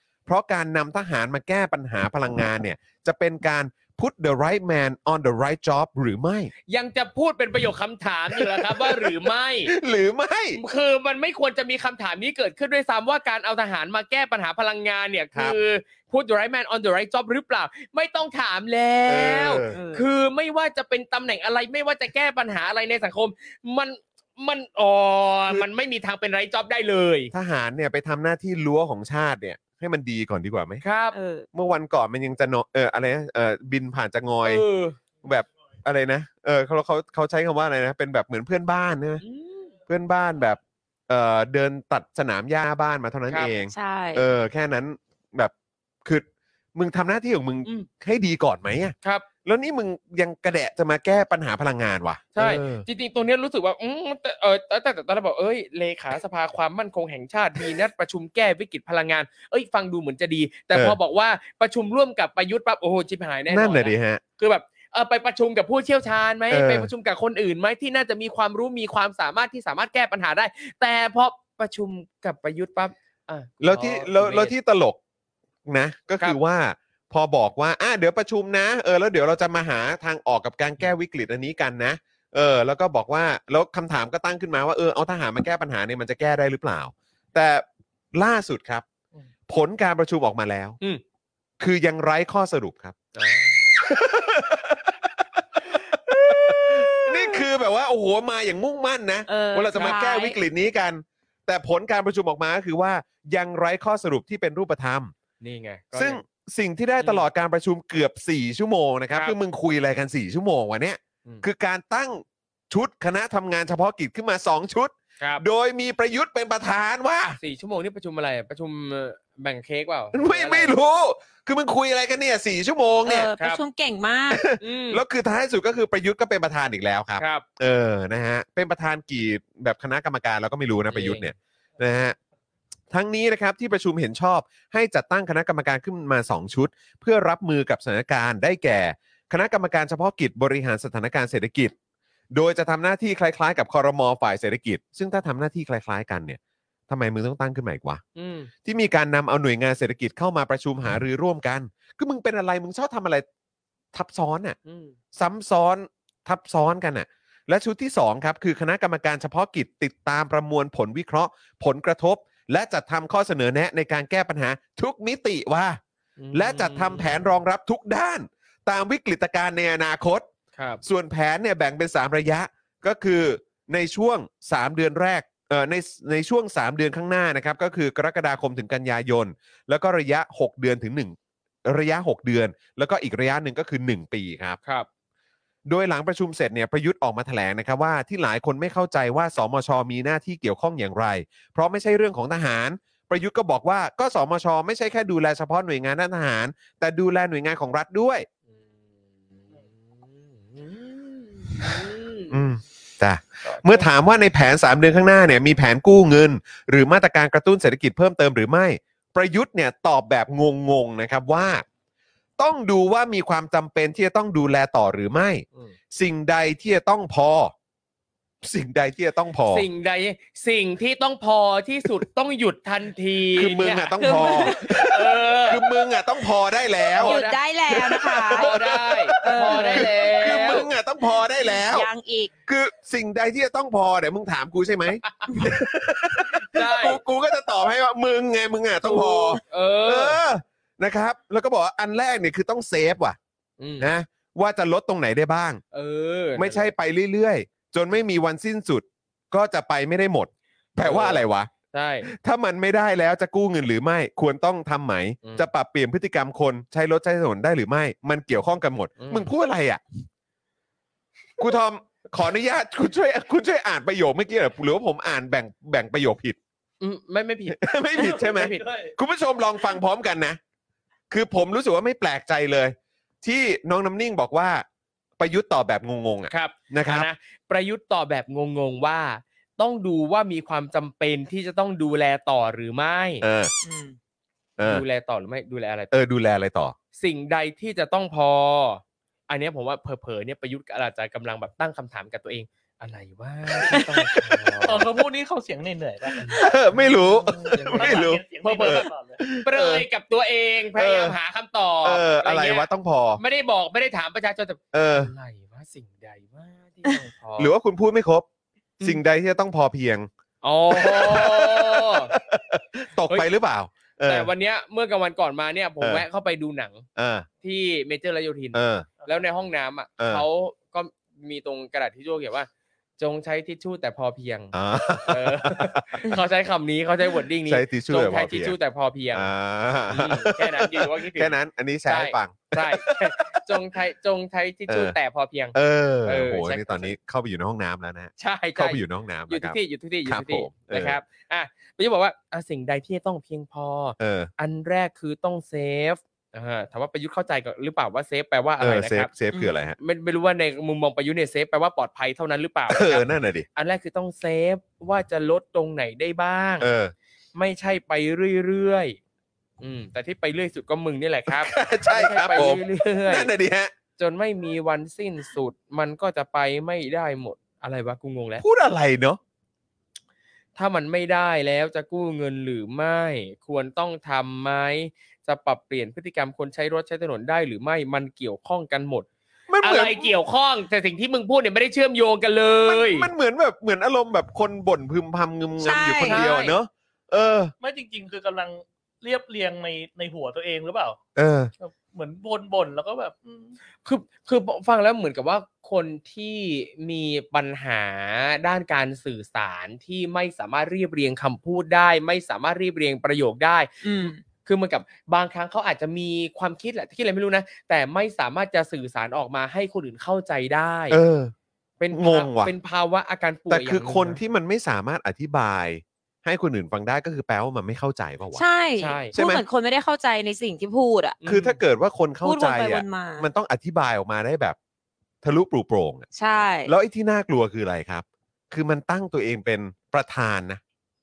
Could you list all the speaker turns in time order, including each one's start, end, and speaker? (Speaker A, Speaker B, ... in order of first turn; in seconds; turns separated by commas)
Speaker A: 0.3-6.5, Speaker B: 6.7-9.7, Speaker A: 8.3-10.6, Speaker B: 10.5-27.3, Speaker A: 19.1-19.8, Speaker C: 19.7-20.1, Speaker A: 27.3-30.8, Speaker B: 30.8-31.1, Speaker C: 31.1-31.5, Speaker A: 31.5-34.6, Speaker B: 34.4-35.0, Speaker A: 35.2-39.2, Speaker B: 39.2-39.7, Speaker A: 39.9-45.5, Speaker B: 43.3-43.5, Speaker C: 43.7-44.2, Speaker A: 46.0-52.9, Speaker B: 52.3-74.5, Speaker A: 63.5-64.2, Speaker A: 66.5-66.9, Speaker A: 73.6-75.0, Speaker A: 75.7-88.8, Speaker A: 89.5-90.8, Speaker A: 91.6-93.0, Speaker B: 93.1-93.6, Speaker A: 93.8-95.2, Speaker A: 95.7-105.1, Speaker C: 99.3-100.4, Speaker B: 105.4-106.2, Speaker A: 106.0-117.4, Speaker B: 107.0-107.2, Speaker B: 109.1-109.3, Speaker B: 117.4-120.7, Speaker A: 120.1-123.3, Speaker C: 123.0-124.4, Speaker A: 124.3-132.2, Speaker B: 124.6-125.0, Speaker B: 127.2-127.4, Speaker B: 130.9-131.3, Speaker A: 132.9-141.7, Speaker A: 142.3-148.0, Speaker B: 148.2-148.5, Speaker A: 148.6-153.2, Speaker A: 153.9-154.6, Speaker B: 154.6-154.9, Speaker A: 155.1-165.8, Speaker B: 166.2-167.2, Speaker A: 166.3-170.2, Speaker B: 170.6-170.8, Speaker A: 170.8-184.6, Speaker A: 185.7-198.2, Speaker B: 198.5-198.8, Speaker B: 199.3-202.4, Speaker A: 202.3-211.6, Speaker B: 203.4-203.9, Speaker A: 212.4-217.5, Speaker A: 218.4-219.7, Speaker B: 219.5-225.6, Speaker A: 223.3-231.9, Speaker C: 224.0-224.9, Speaker C: 226.9-228.5, Speaker B: 227.0-227.4, Speaker B: 228.3-230.7, Speaker C: 229.1-230.6, Speaker C: 231.5-232.3, Speaker A: 232.4-243.2, Speaker B: 235.0-235.5, Speaker B: 236.3-237.0, Speaker B: 238.8-240.2, Speaker B: 243.6-243.9, Speaker A: 243.8-245.6, Speaker B: 245.7-246.7, Speaker A: 246.3-251.5, Speaker B: 250.8-252.1, Speaker A: 252.1-259.8, Speaker B: 259.0-259.3, Speaker A: 261.4-266.4, Speaker B: 266.8-268.6, Speaker A: 267.5-270.4, Speaker D: 268.3-268.9, Speaker A: 271.1-274.6, Speaker A: 275.2-277.1, Speaker B: 276.3-283.2, Speaker A: 283.2-283.5, Speaker C: 283.6-283.9, Speaker A: 284.6-284.8, Speaker B: 284.6-285.9, Speaker A: 285.9-286.7, Speaker B: 287.0-294.9, Speaker D: 294.6-296.3, Speaker B: 296.2-298.9, Speaker A: 296.3-299.9, Speaker D: 297.6-299.2, Speaker B: 299.4-307.5, Speaker A: 300.8-301.1, Speaker A: 301.8-303.2, Speaker A: 304.7-305.1, Speaker A: 307.4-308.2, Speaker A: 308.8-310.1, Speaker B: 310.4-312.1, Speaker A: 310.7-314.3, Speaker B: 314.0-316.9, Speaker A: 316.9-317.2, Speaker B: 317.4-329.3, Speaker A: 318.5-318.9, Speaker A: 320.0-320.2, Speaker A: 324.5-326.1, Speaker A: 327.4-328.6, Speaker A: 329.1-333.5, Speaker B: 329.9-331.3, Speaker B: 331.9-336.9, Speaker A: 334.7-334.9, Speaker A: 335.5-341.0, Speaker B: 338.2-349.1, Speaker A: 344.0-344.3, Speaker A: 348.6-349.8, Speaker B: 349.8-356.7, Speaker A: 352.7-353.4, Speaker A: 356.6-356.9, Speaker B: 357.3-359.0, Speaker B: 359.6-363.3, Speaker A: 361.3-363.7, Speaker B: 364.0-368.4, Speaker A: 368.4-369.2, Speaker B: 370.6-379.1, Speaker A: 379.5-380.1, Speaker B: 379.6-383.1, Speaker A: 382.6-387.5, Speaker C: 385.6-386.3, Speaker B: 386.1-386.6, Speaker D: 387.6-391.0, Speaker A: 391.1-391.5, Speaker D: 391.6-393.6, Speaker B: 393.8-411.0, Speaker C: 403.8-404.2, Speaker A: 410.9-411.3, Speaker B: 411.8-414.2, Speaker A: 411.9-412.5, Speaker A: 413.5-418.4, Speaker C: 418.3-421.2, Speaker B: 418.8-419.1, Speaker A: 419.1-419.4, Speaker B: 421.2-421.6, Speaker A: 421.2-424.6, Speaker C: 422.2-423.3, Speaker A: 425.2-426.1, Speaker C: 426.1-426.7, Speaker A: 426.6-430.6